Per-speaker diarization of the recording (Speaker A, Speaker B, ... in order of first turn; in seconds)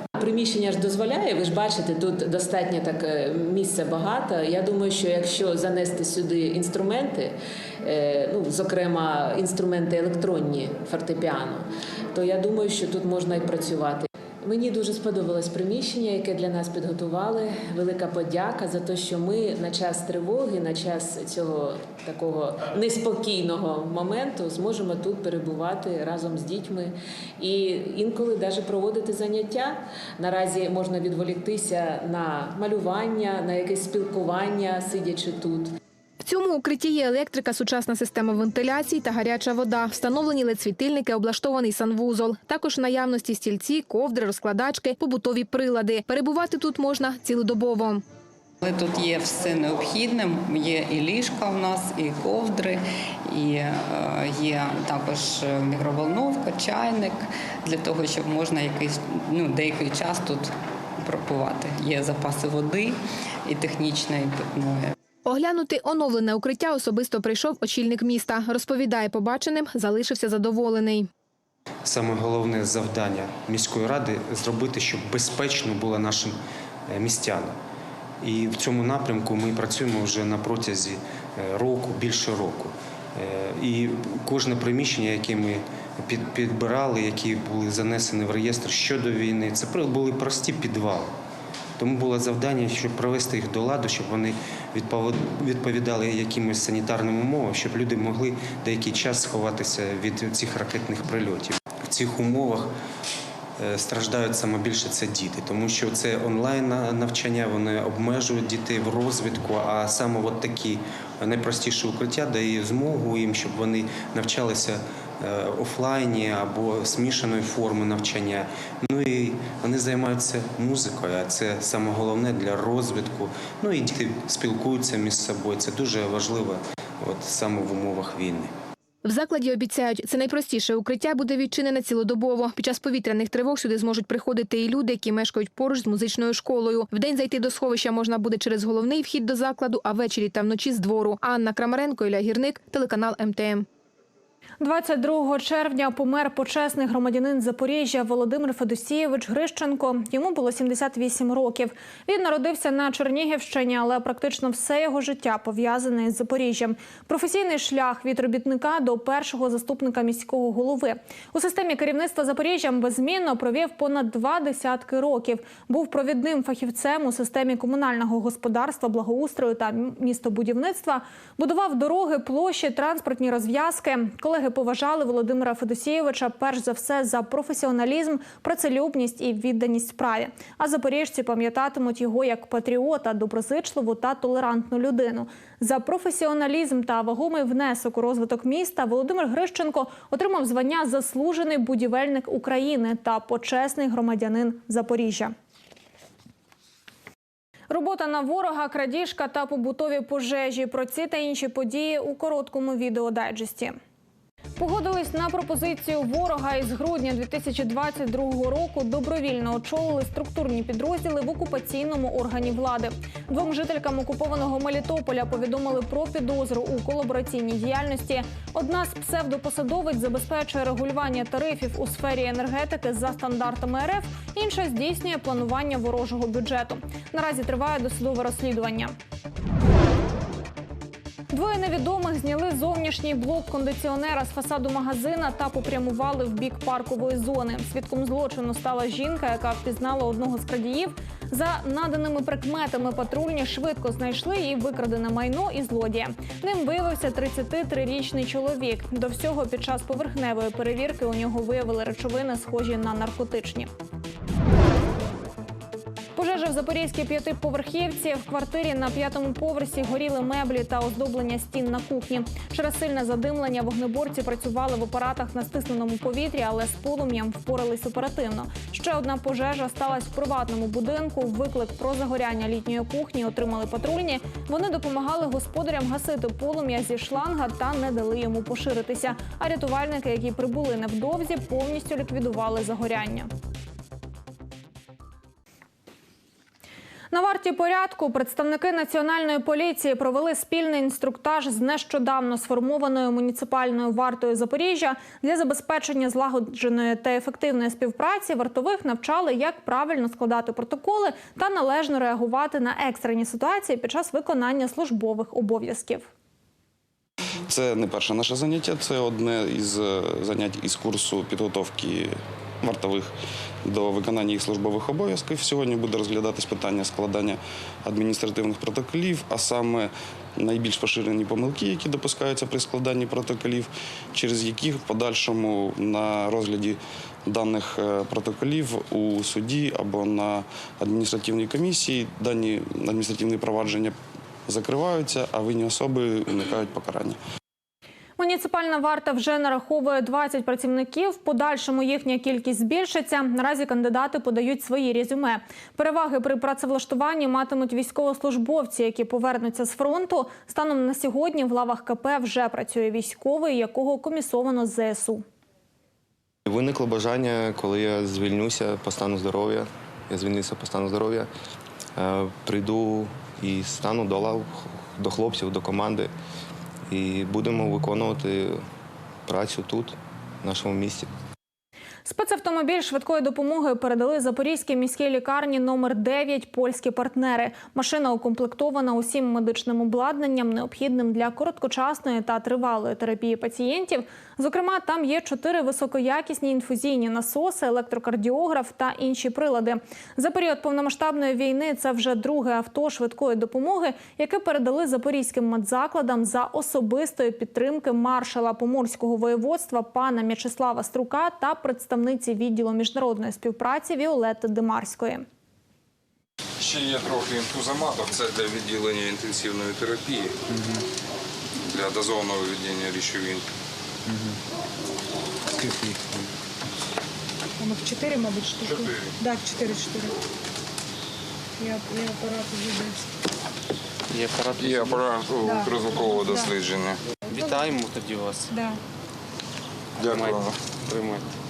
Speaker A: 0.2-35.7
Speaker B: 36.2-48.0, 65.2-71.1, 129.0-143.7
Speaker C: 48.6-64.9
Speaker D: 71.8-76.4, 76.9-77.6, 78.2-91.1, 91.8-102.7, 103.6-128.5, 424.1-425.0, 427.3-428.5, 430.1-431.3
Speaker E: 144.6-195.3, 197.7-203.8, 204.6-228.9, 231.3-253.7, 256.2-283.3, 287.1-306.1, 338.2-355.2, 372.1-405.3
Speaker F: 307.4-313.1, 313.6-337.2
Speaker G: 356.5-361.3, 362.0-366.1, 366.9-368.6, 369.3-371.1
Speaker H: 406.6-410.4, 411.6-413.4, 418.7-419.1, 424.6-427.0, 430.0-430.6
Speaker I: 417.6-420.1, 421.6-423.0, 425.4-426.5, 427.3-427.6, 428.5-428.8